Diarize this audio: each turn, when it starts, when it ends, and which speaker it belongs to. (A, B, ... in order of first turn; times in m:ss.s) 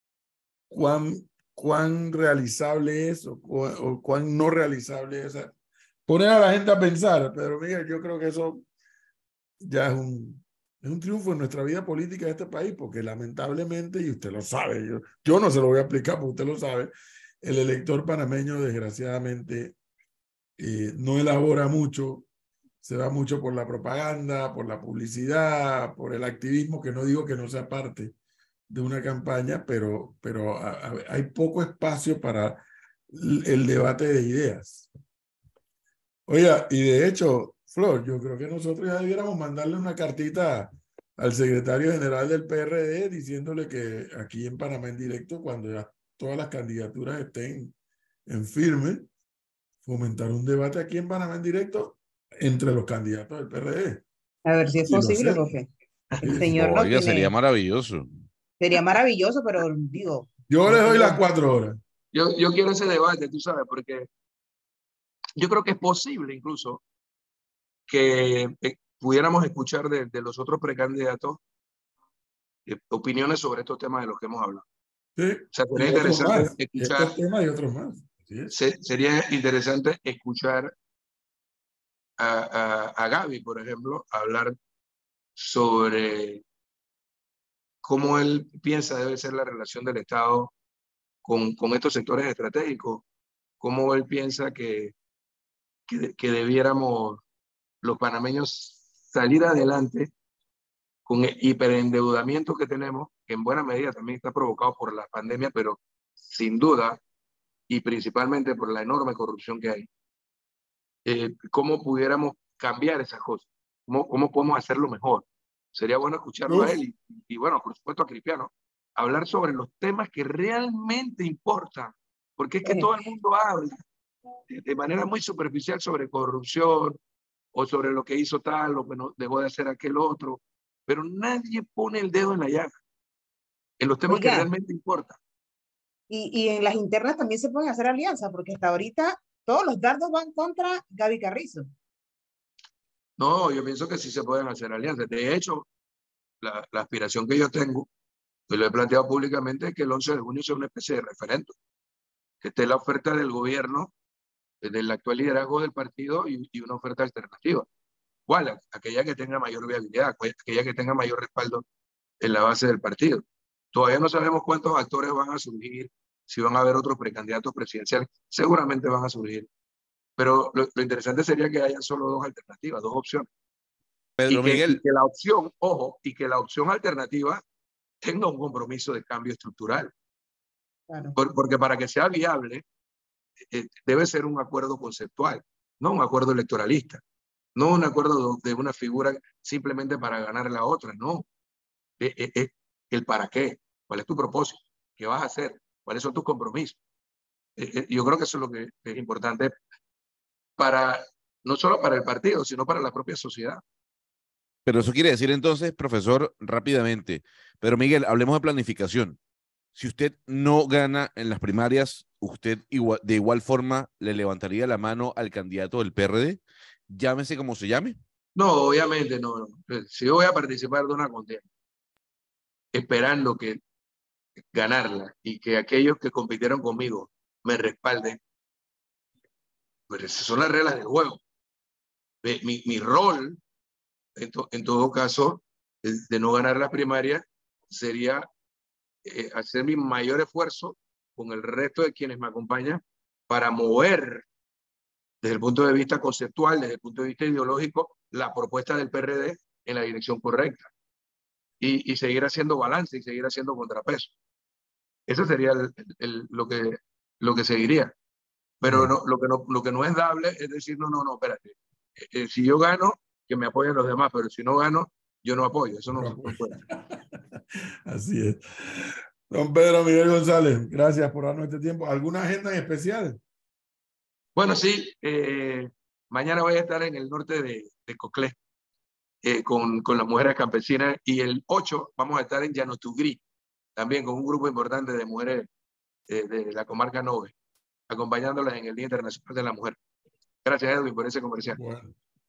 0:00.7-0:05.5 A
0:06.1-0:08.6 A
0:09.6-0:19.7 A
0:20.6-0:22.3 A
0:22.8-0:28.1 A
0:28.7-0:34.9 A
0:36.3-0:47.7 A
0:48.3-0:49.1 A
0:49.8-0:54.0 A
0:54.4-0:57.3 B
0:54.8-0:55.5 A
0:56.2-0:56.5 A
0:56.3-0:58.1 C
0:58.6-1:01.2 B
1:00.5-1:01.8 A
1:02.1-1:04.1 D
1:05.4-1:06.8 D
1:07.9-1:11.4 D
1:12.7-1:14.6 D
1:15.2-1:18.5 A
1:15.5-1:17.1 D
1:18.5-1:20.7 D
1:22.2-1:24.6 D
1:25.4-1:26.4 D
1:27.8-1:30.5 D
1:31.2-1:33.0 D
1:33.6-1:34.9 D
1:35.9-1:37.2 D
1:37.8-1:40.1 D
1:41.1-1:47.0 D
1:47.7-1:49.9 D
1:51.0-2:03.8 D
2:02.6-2:03.0 B
2:04.5-2:07.0 D
2:07.5-2:12.7 D
2:13.8-2:15.2 D
2:14.1-2:14.5 B
2:16.1-2:21.7 B
2:23.2-2:25.7 D
2:26.4-2:27.9 D
2:28.5-2:31.5 D
2:32.4-2:33.9 D
2:34.6-2:37.7 D
2:38.3-2:41.6 D
2:42.2-2:49.5 D
2:50.2-2:53.3 D
2:54.2-2:54.8 C
2:54.3-2:57.4 D
2:58.0-2:59.9 D
3:00.9-3:01.2 B
3:01.2-3:02.6 D
3:03.5-3:07.0 D
3:07.6-3:11.2 D
3:12.0-3:16.8 D
3:17.6-3:19.5 D
3:20.6-3:23.6 D
3:24.7-3:29.2 C
3:29.7-3:38.0 C
3:38.3-3:41.4 D
3:42.7-3:43.6 D
3:44.5-3:48.2 D
3:49.9-3:51.2 D
3:52.2-3:53.4 D
3:54.2-3:58.3 D
3:59.0-4:04.2 D
4:05.2-4:10.7 D
4:11.6-4:14.1 D
4:15.1-4:17.9 D
4:18.6-4:26.6 D
4:18.6-4:18.9 A
4:25.9-4:27.1 A
4:27.9-4:33.2 A
4:34.4-4:38.3 D
4:39.2-4:43.2 D
4:43.8-4:45.5 D
4:46.1-4:47.3 D
4:47.9-4:49.8 D
4:50.4-4:51.6 D
4:51.5-4:52.0 A